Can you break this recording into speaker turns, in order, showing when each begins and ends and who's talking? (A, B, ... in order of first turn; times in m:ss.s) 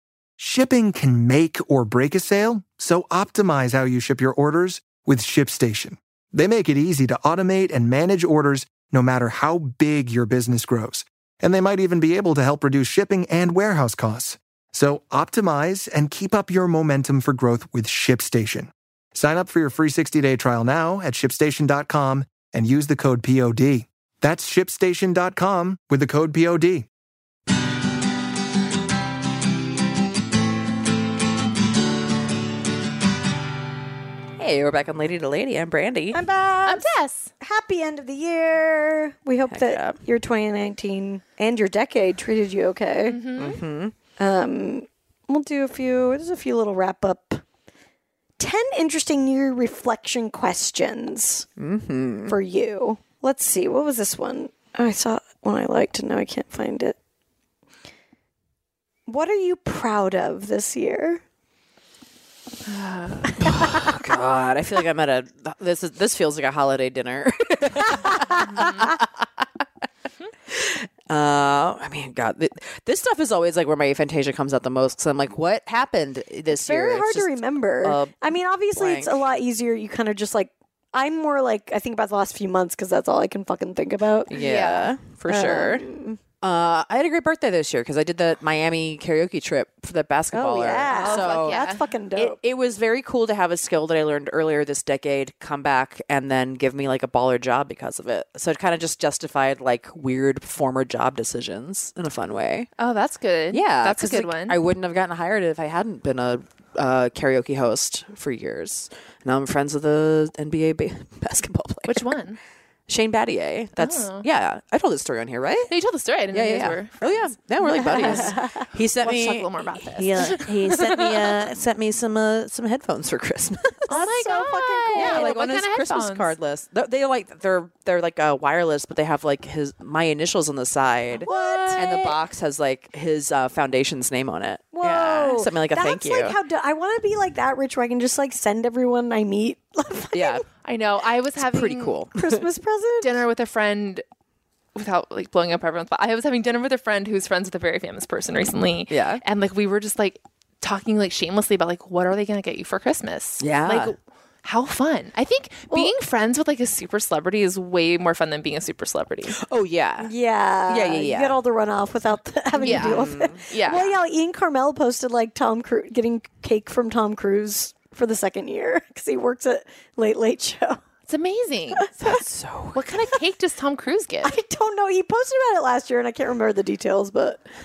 0:00.4-0:26.9 A
0:34.4-0:36.2 B
0:36.1-0:36.8 C
0:36.6-0:37.3 D
0:37.4-0:43.2 C
0:39.5-0:40.0 B
0:43.1-0:43.6 D
0:43.4-0:43.9 B
0:44.2-0:47.4 C
0:48.4-0:51.5 C
0:51.6-0:52.4 B
0:52.2-0:57.0 C
0:59.1-1:01.2 C
1:02.6-1:03.4 D
1:03.4-1:09.4 B
1:03.4-1:03.9 C
1:08.4-1:08.9 D
1:10.5-1:19.2 B
1:16.5-1:24.3 C
1:24.3-1:25.9 B
1:24.3-1:24.9 D
1:25.3-1:26.2 C
1:26.4-1:42.7 B
1:30.3-1:32.4 C
1:30.9-1:31.8 D
1:42.8-1:44.6 D
1:43.5-1:52.2 B
1:51.8-1:52.4 D
1:52.9-1:55.7 B
1:53.8-1:54.2 D
1:55.7-1:58.4 D
1:56.3-2:04.0 B
1:57.8-1:58.6 C
1:59.0-2:01.2 D
2:03.9-2:05.3 C
2:03.9-2:06.3 D
2:04.9-2:16.4 B
2:11.2-2:12.2 C
2:11.3-2:11.8 D
2:14.7-2:20.4 C
2:20.1-2:20.4 B
2:20.6-2:22.0 D
2:21.4-2:22.4 B
2:22.1-2:23.2 C
2:23.0-2:24.0 D
2:24.7-2:39.4 D
2:28.9-2:29.2 B
2:33.4-2:33.9 B
2:39.4-2:40.1 B
2:40.0-2:50.8 C
2:40.7-2:41.4 B
2:42.6-2:43.4 B
2:42.6-2:43.9 D
2:51.1-2:51.9 D
2:51.8-2:52.2 C
2:52.0-2:52.8 B
2:52.7-2:54.4 D
2:54.2-2:57.4 C